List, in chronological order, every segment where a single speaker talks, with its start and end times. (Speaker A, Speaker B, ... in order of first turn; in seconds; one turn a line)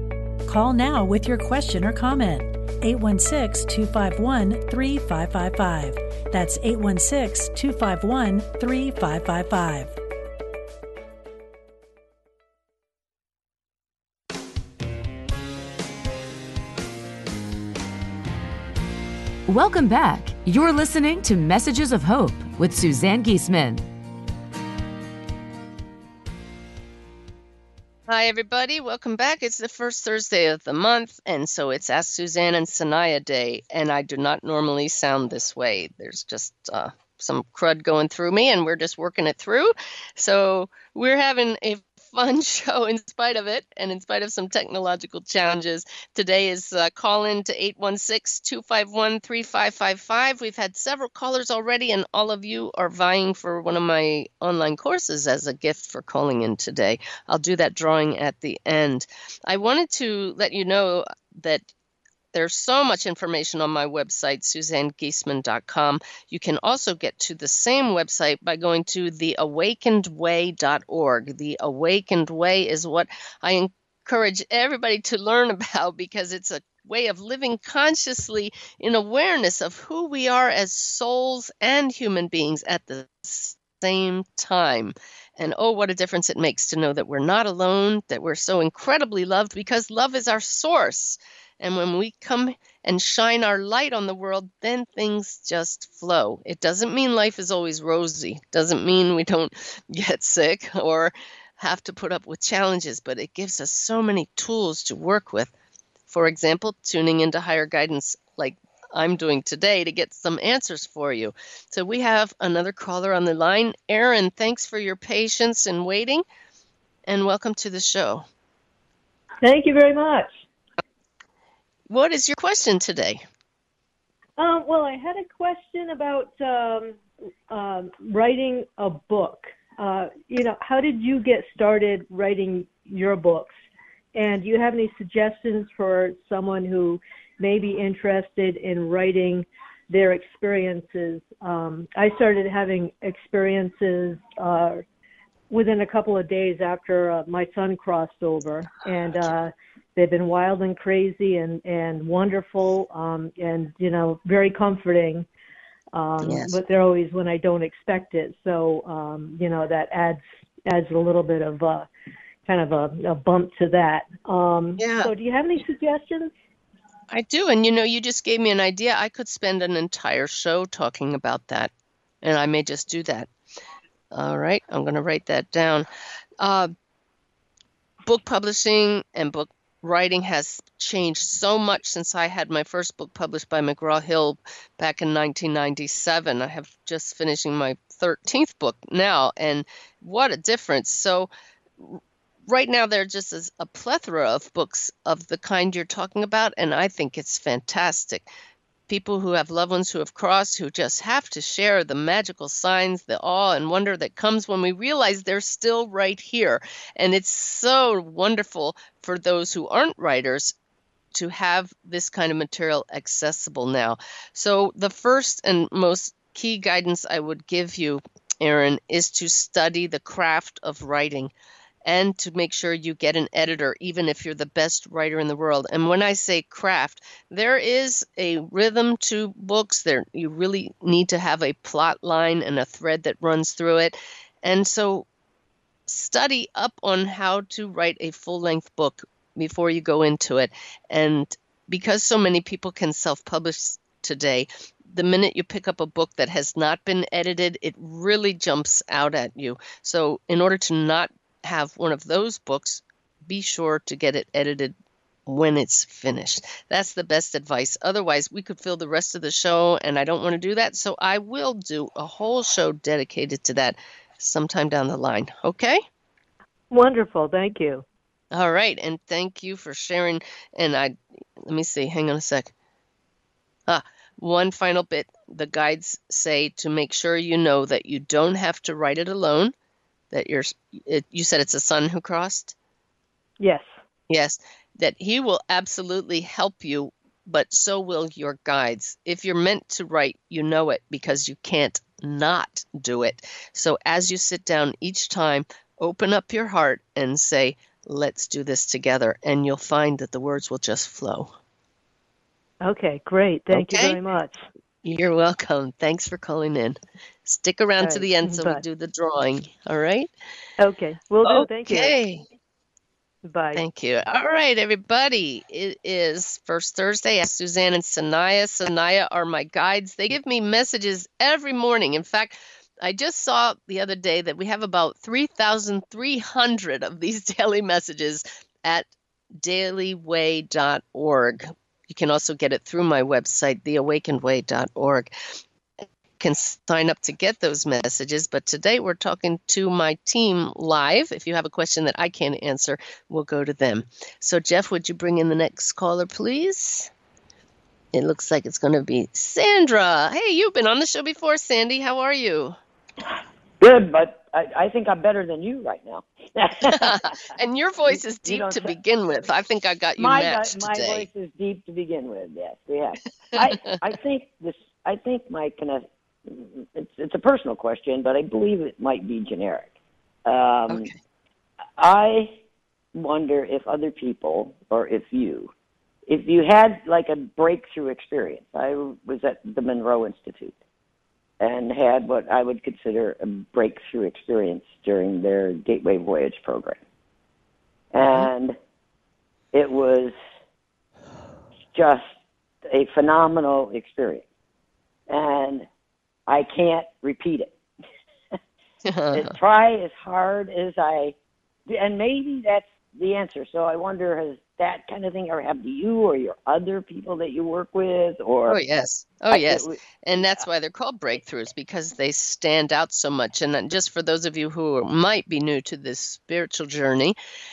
Speaker A: 0.5-9.9
Speaker B: 19.5-23.8
Speaker C: 28.1-61.7
Speaker C: 62.3-105.5
Speaker C: 106.1-116.2
Speaker C: 117.0-118.2
Speaker D: 119.4-120.3
Speaker C: 121.9-123.2
Speaker D: 124.4-133.5
Speaker D: 134.1-144.8
Speaker D: 145.5-155.3
Speaker D: 155.9-161.9
Speaker C: 156.2-156.6
Speaker D: 162.4-166.3
Speaker C: 164.8-165.1
Speaker C: 167.1-171.7
Speaker C: 172.2-173.3
Speaker C: 174.1-175.9
Speaker C: 176.4-176.7
Speaker C: 178.0-198.3
Speaker C: 198.9-210.5
Speaker C: 211.1-221.3
Speaker C: 221.8-235.1
Speaker C: 235.9-265.8
Speaker D: 266.7-267.8
Speaker C: 268.3-272.5
Speaker C: 273.7-279.5
Speaker C: 280.1-282.5
Speaker D: 283.4-283.8
Speaker C: 284.1-301.3
Speaker D: 302.6-304.4
Speaker C: 303.5-304.0
Speaker C: 304.8-310.1
Speaker D: 307.8-308.6
Speaker D: 310.6-311.9
Speaker C: 311.2-312.2
Speaker D: 313.2-313.6
Speaker C: 313.5-335.1
Speaker C: 336.2-346.9
Speaker C: 347.9-352.6
Speaker E: 353.6-357.2
Speaker C: 356.7-361.1
Speaker E: 357.9-358.7
Speaker E: 360.0-369.7
Speaker C: 363.4-363.8
Speaker E: 370.2-370.9
Speaker C: 370.7-371.0
Speaker E: 371.8-372.4
Speaker E: 372.9-375.5
Speaker E: 376.1-380.6
Speaker E: 381.4-386.8
Speaker E: 387.9-388.6
Speaker C: 388.0-388.3
Speaker E: 389.5-390.1
Speaker E: 391.7-392.1
Speaker E: 392.7-394.2
Speaker E: 395.1-395.7
Speaker E: 396.3-397.5
Speaker C: 398.8-399.4
Speaker E: 399.1-401.1
Speaker E: 401.7-408.6
Speaker C: 408.5-417.2
Speaker E: 409.3-410.5